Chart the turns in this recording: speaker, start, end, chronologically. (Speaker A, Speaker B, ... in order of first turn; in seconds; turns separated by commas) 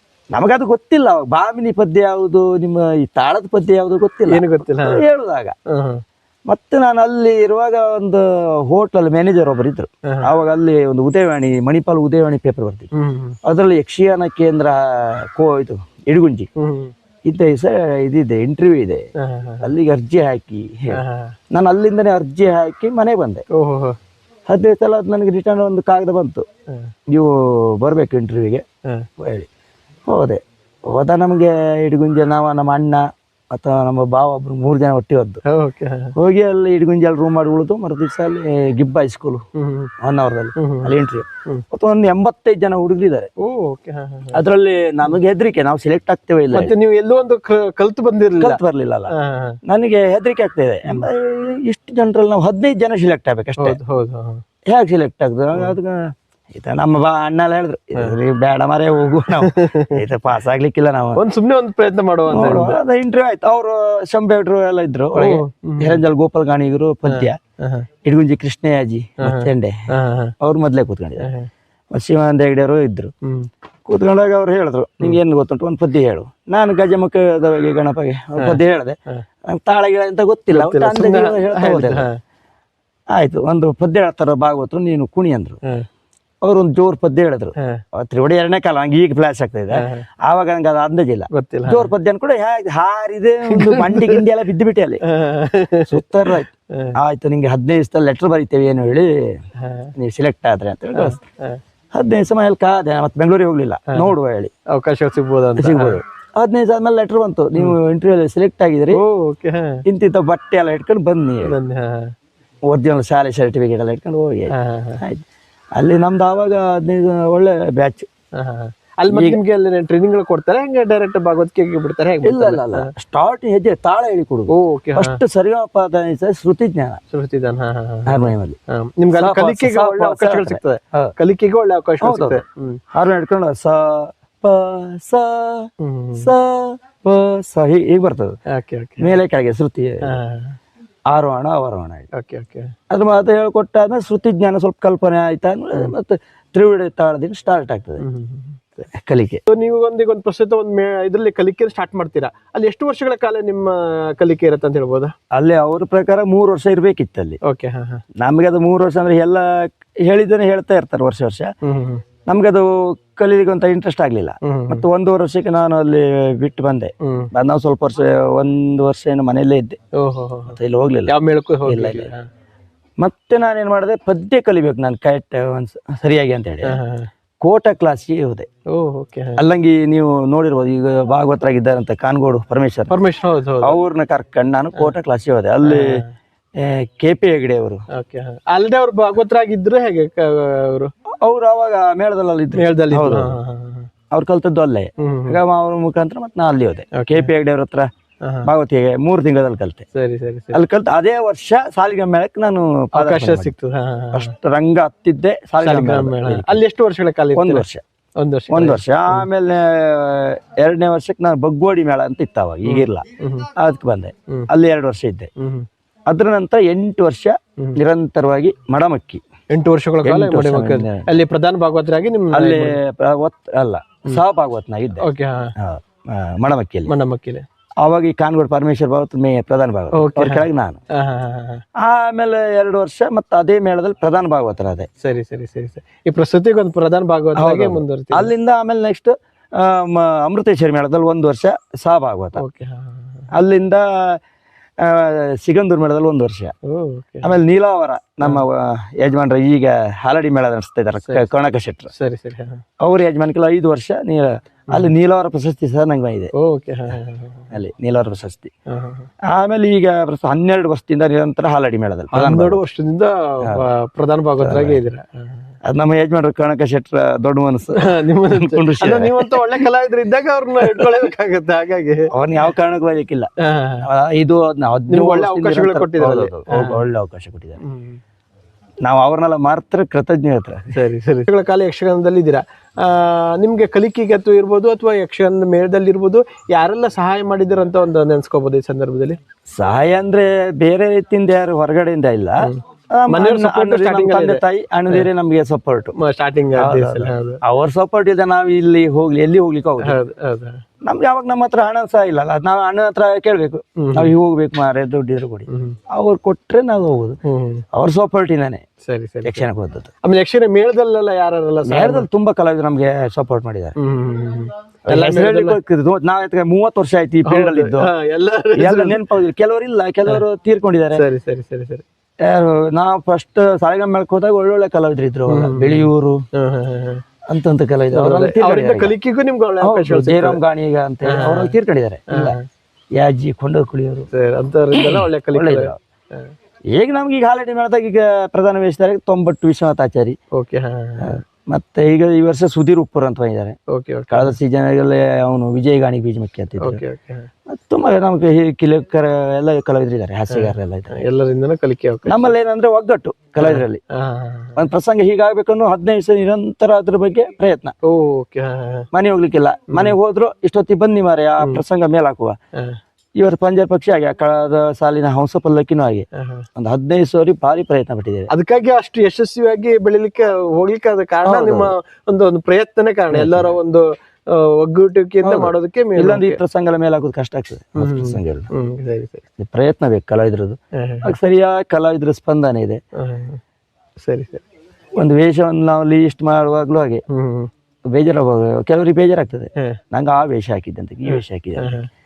Speaker A: 0.3-5.5, Speaker B: 4.3-5.0, Speaker B: 5.7-6.0, Speaker A: 6.5-12.9, Speaker B: 12.9-13.4, Speaker A: 13.4-16.5, Speaker B: 16.6-16.9, Speaker A: 17.2-19.0, Speaker B: 19.2-19.7, Speaker A: 19.6-21.0, Speaker B: 20.9-21.3, Speaker A: 21.5-23.4, Speaker B: 23.5-23.9, Speaker A: 24.5-26.4, Speaker A: 27.1-28.6, Speaker A: 29.2-29.5, Speaker A: 30.1-35.4, Speaker B: 35.5-36.1, Speaker A: 36.1-39.4, Speaker B: 39.5-39.9, Speaker A: 40.0-43.3, Speaker B: 40.6-40.9, Speaker B: 43.4-44.4, Speaker A: 44.3-46.7, Speaker B: 46.5-48.6, Speaker A: 48.4-49.1, Speaker B: 49.1-49.6, Speaker A: 49.6-53.8, Speaker B: 53.6-54.4, Speaker A: 54.7-61.2, Speaker B: 59.3-60.0, Speaker B: 61.1-62.8, Speaker A: 62.3-67.4, Speaker B: 65.1-66.0, Speaker B: 67.1-67.9, Speaker A: 68.0-69.8, Speaker B: 69.2-70.3, Speaker A: 70.4-71.3, Speaker B: 71.2-71.5, Speaker A: 71.9-73.1, Speaker B: 73.2-73.5, Speaker A: 73.9-82.1, Speaker B: 78.4-79.2, Speaker B: 80.5-82.2, Speaker A: 83.1-85.6, Speaker A: 86.4-95.0, Speaker B: 89.7-90.0, Speaker B: 91.3-91.9, Speaker B: 93.5-94.2, Speaker B: 95.1-96.9, Speaker A: 95.9-99.4, Speaker B: 99.6-99.9, Speaker A: 100.0-101.2, Speaker B: 100.9-101.6, Speaker A: 101.9-104.5, Speaker B: 104.7-106.0, Speaker A: 105.6-109.0, Speaker B: 108.9-109.8, Speaker A: 109.9-111.5, Speaker B: 111.4-112.1, Speaker A: 112.7-115.2, Speaker B: 114.5-115.0, Speaker A: 115.7-118.1, Speaker B: 118.3-122.9, Speaker A: 119.1-119.4, Speaker A: 122.2-127.0, Speaker B: 124.5-125.2, Speaker B: 127.1-132.8, Speaker A: 128.1-128.6, Speaker A: 129.2-131.1, Speaker A: 132.0-132.4, Speaker A: 132.9-138.4, Speaker B: 135.8-136.3, Speaker B: 138.5-139.2, Speaker A: 139.0-140.2, Speaker B: 140.1-140.6, Speaker A: 141.1-142.1, Speaker B: 142.1-142.7, Speaker A: 142.9-148.0, Speaker B: 148.0-148.8, Speaker A: 148.9-149.4, Speaker B: 149.5-155.1, Speaker A: 155.3-157.4, Speaker B: 157.4-158.0, Speaker A: 158.2-161.5, Speaker B: 161.6-162.0, Speaker A: 162.3-169.8, Speaker B: 164.4-164.8, Speaker B: 167.0-167.3, Speaker B: 169.9-172.2, Speaker A: 170.5-171.1, Speaker A: 171.7-172.1, Speaker A: 173.0-176.8, Speaker B: 176.6-177.1, Speaker A: 177.4-178.5, Speaker B: 178.7-179.4, Speaker A: 179.4-182.9, Speaker B: 182.9-183.8, Speaker A: 183.6-185.9, Speaker B: 185.6-186.1, Speaker A: 186.6-187.8, Speaker B: 187.9-190.9, Speaker A: 191.2-193.4, Speaker B: 192.5-193.9, Speaker A: 194.1-197.9, Speaker B: 195.0-195.4, Speaker B: 196.9-197.3, Speaker B: 198.2-198.5, Speaker A: 198.4-199.8, Speaker B: 199.9-200.6, Speaker A: 200.5-203.5, Speaker B: 203.0-204.3, Speaker A: 204.1-206.6, Speaker B: 205.6-207.7, Speaker A: 207.3-207.8, Speaker B: 208.2-209.3, Speaker A: 208.5-215.3, Speaker B: 212.7-213.5, Speaker B: 215.4-215.7, Speaker A: 216.1-219.2, Speaker B: 219.5-222.8, Speaker A: 220.1-221.1, Speaker A: 222.3-225.1, Speaker B: 225.0-225.5, Speaker A: 225.6-226.9, Speaker B: 226.8-227.4, Speaker A: 227.8-230.8, Speaker B: 229.9-231.6, Speaker A: 231.8-234.9, Speaker B: 235.0-238.3, Speaker A: 237.3-242.4, Speaker B: 242.4-243.3, Speaker A: 243.3-244.2, Speaker A: 244.8-246.5, Speaker B: 246.7-247.3, Speaker A: 247.2-251.9, Speaker B: 251.9-252.6, Speaker A: 252.8-256.3, Speaker B: 256.4-257.6, Speaker A: 257.5-258.5, Speaker B: 258.7-259.1, Speaker A: 259.3-262.6, Speaker B: 262.1-265.4, Speaker A: 264.4-264.8, Speaker A: 265.6-269.5, Speaker B: 267.8-272.0, Speaker A: 270.7-270.9, Speaker A: 272.1-273.3, Speaker B: 273.4-273.9, Speaker A: 273.8-277.6, Speaker B: 274.9-276.8, Speaker B: 277.6-278.0, Speaker A: 278.8-280.8, Speaker B: 280.7-289.2, Speaker A: 289.6-295.9, Speaker B: 292.4-295.1, Speaker B: 295.9-297.4, Speaker A: 296.6-300.0, Speaker B: 299.8-300.6, Speaker A: 300.8-307.2, Speaker B: 303.8-304.1, Speaker B: 305.5-305.8, Speaker B: 307.2-307.6, Speaker A: 307.7-308.6, Speaker B: 308.8-309.5, Speaker A: 309.2-309.9, Speaker B: 310.0-312.1, Speaker A: 311.7-313.7, Speaker B: 313.8-315.6, Speaker A: 314.9-317.9, Speaker B: 317.2-319.1, Speaker A: 318.6-321.0, Speaker B: 320.9-321.8, Speaker A: 322.2-326.2, Speaker B: 325.3-327.0, Speaker A: 327.3-328.9, Speaker B: 327.9-330.4, Speaker A: 329.6-332.4, Speaker B: 331.0-331.6, Speaker B: 332.1-332.4, Speaker A: 333.0-334.1, Speaker B: 334.1-336.3, Speaker A: 334.7-335.8, Speaker A: 336.7-340.2, Speaker B: 340.3-341.2, Speaker A: 341.0-343.6, Speaker B: 343.7-344.4, Speaker A: 344.1-346.8, Speaker B: 346.6-347.3, Speaker A: 347.5-350.9, Speaker B: 350.3-352.3, Speaker A: 352.1-353.8, Speaker B: 353.4-354.6, Speaker A: 354.6-357.7, Speaker B: 357.8-358.9, Speaker A: 358.9-362.4, Speaker A: 363.2-366.1, Speaker B: 366.2-366.4, Speaker A: 366.6-368.3, Speaker B: 368.3-376.4, Speaker A: 371.2-371.7, Speaker A: 373.1-373.6, Speaker A: 375.2-378.5, Speaker B: 377.8-379.2, Speaker A: 379.4-382.8, Speaker B: 380.8-381.1, Speaker B: 383.0-383.4, Speaker B: 384.0-384.4, Speaker A: 384.9-387.0, Speaker B: 387.1-387.5, Speaker A: 387.9-391.8, Speaker B: 391.1-391.9